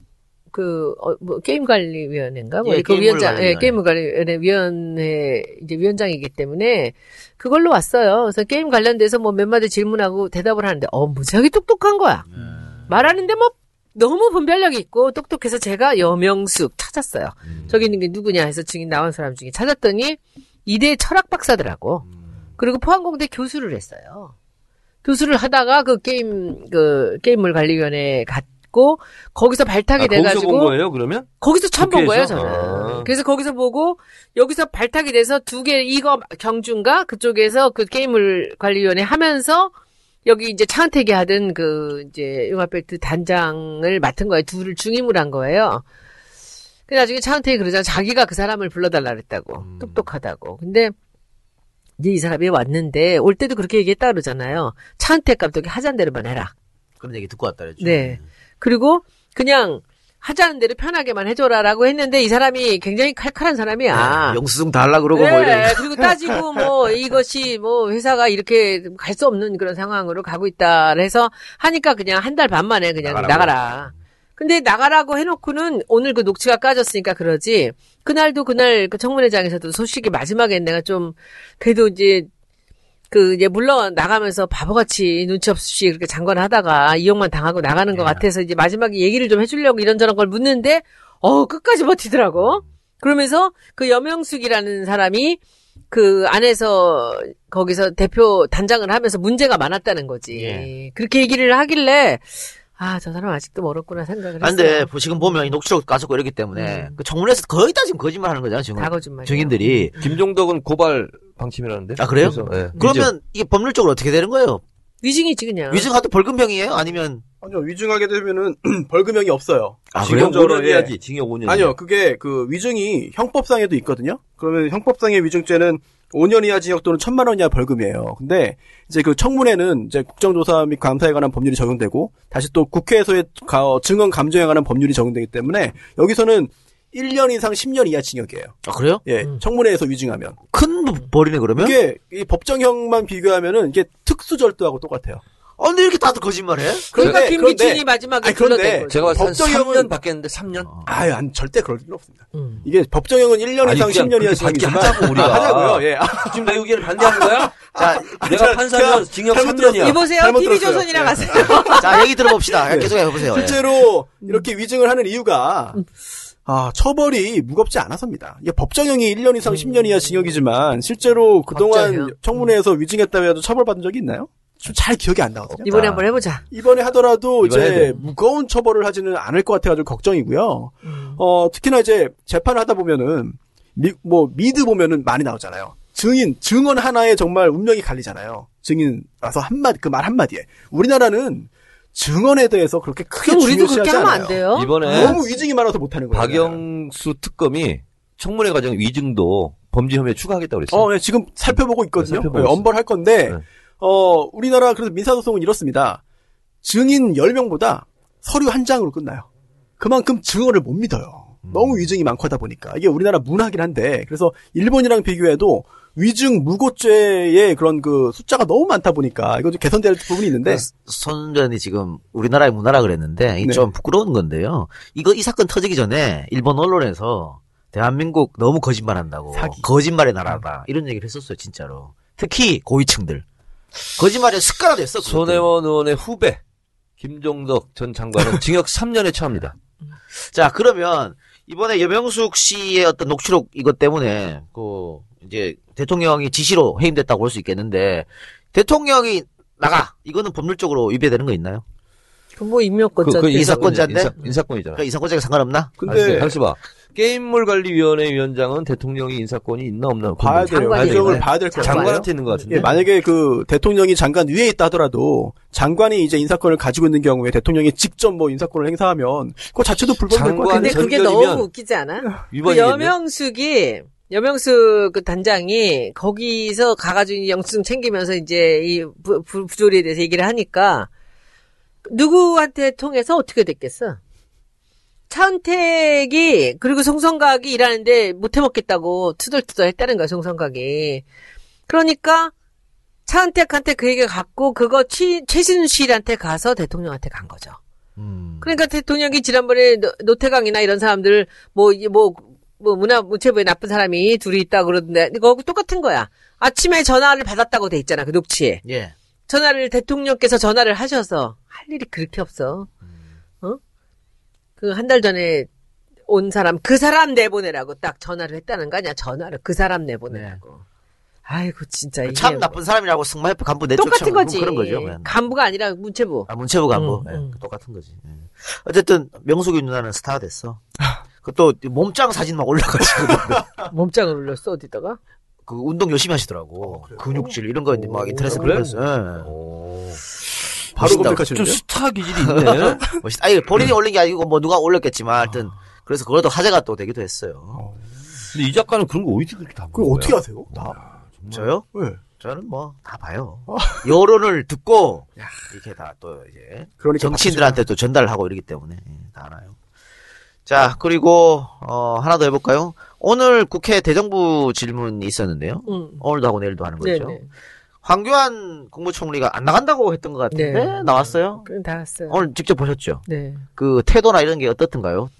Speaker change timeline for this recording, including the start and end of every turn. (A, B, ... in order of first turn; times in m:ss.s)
0:00.5-0:12.2 A
0:02.6-0:03.8 B
0:12.3-0:12.9 B
0:12.9-0:22.0 A
0:17.4-0:17.8 B
0:22.1-0:22.4 B
0:22.6-0:24.3 A
0:25.0-0:30.8 A
0:30.0-0:33.1 C
0:31.4-0:39.7 A
0:40.2-0:45.8 A
0:46.9-0:50.9 A
0:49.6-0:50.1 B
0:52.0-0:56.5 A
0:57.0-0:58.2 B
0:57.8-1:04.4 A
1:03.9-1:05.8 B
1:05.1-1:22.3 A
1:13.0-1:13.6 B
1:23.1-1:35.4 A
1:35.9-1:45.5 A
1:40.3-1:40.7 B
1:44.4-1:49.9 B
1:46.5-1:47.0 A
1:48.8-1:50.0 A
1:50.0-1:53.1 C
1:52.0-1:54.6 B
1:55.0-1:55.9 A
1:55.7-1:57.2 B
1:57.4-2:00.9 D
1:59.9-2:00.3 B
2:00.0-2:01.7 C
2:01.4-2:20.4 D
2:18.6-2:19.0 B
2:20.5-2:21.8 B
2:21.6-2:25.2 D
2:25.6-2:26.9 B
2:26.9-2:29.9 D
2:26.9-2:29.3 A
2:28.9-2:30.7 C
2:30.6-2:30.9 B
2:30.8-2:45.8 D
2:32.3-2:32.7 A
2:33.6-2:40.0 C
2:37.8-2:38.0 B
2:39.8-2:42.1 A
2:41.8-2:43.6 B
2:46.4-2:55.8 D
2:49.4-2:50.1 A
2:51.5-2:52.5 A
2:55.5-2:55.9 C
2:55.6-2:56.4 A
2:55.7-2:56.4 B
2:56.5-3:16.6 D
2:57.4-2:58.0 C
3:00.8-3:01.2 A
3:13.2-3:15.2 A
3:14.5-3:15.2 C
3:16.1-3:20.9 C
3:20.7-3:26.0 D
3:21.4-3:22.7 C
3:26.6-3:29.2 D
3:29.8-3:40.6 D
3:31.4-3:31.9 B
3:40.3-3:53.2 B
3:49.3-3:49.6 D
3:54.0-3:55.5 B
3:55.0-3:56.4 C
3:57.0-3:59.6 C
4:00.2-4:11.6 B
4:12.4-4:14.4 A
4:13.0-4:14.8 C
4:13.3-4:15.8 B
4:15.8-4:16.3 D
4:15.8-4:22.6 C
4:20.2-4:30.8 D
4:20.5-4:22.8 A
4:30.1-4:31.5 C
4:30.5-4:40.9 A
4:32.3-4:32.9 C
4:41.8-4:44.0 A
4:45.1-4:51.0 A
4:51.7-4:52.3 A
4:53.0-4:57.6 A
4:58.0-4:58.5 B
4:58.4-5:08.6 A
5:08.6-5:08.9 B
5:09.3-5:12.7 A
5:14.6-5:15.5 A
5:16.1-5:20.6 A
5:20.1-5:20.4 B
5:21.2-5:22.6 A
5:22.0-5:25.2 B
5:23.8-5:27.3 A
5:26.3-5:30.6 B
5:31.2-5:33.5 B
5:33.7-5:35.0 A
5:35.4-5:39.3 B
5:36.6-5:37.2 D
5:37.8-5:38.6 D
5:38.2-5:43.0 C
5:40.8-5:41.6 D
5:40.8-5:41.2 B
5:42.2-5:47.6 B
5:47.5-5:47.8 D
5:48.3-5:51.5 C
5:49.7-5:50.8 D
5:51.3-5:59.5 B
5:51.7-5:52.0 D
5:53.5-5:53.9 D
5:56.8-5:57.6 D
6:00.4-6:07.2 B
6:05.6-6:06.0 A
6:06.8-6:07.3 A
6:07.8-6:11.5 B
6:10.3-6:12.2 A
6:12.1-6:13.0 B
6:13.1-6:13.4 A
6:13.5-6:15.1 B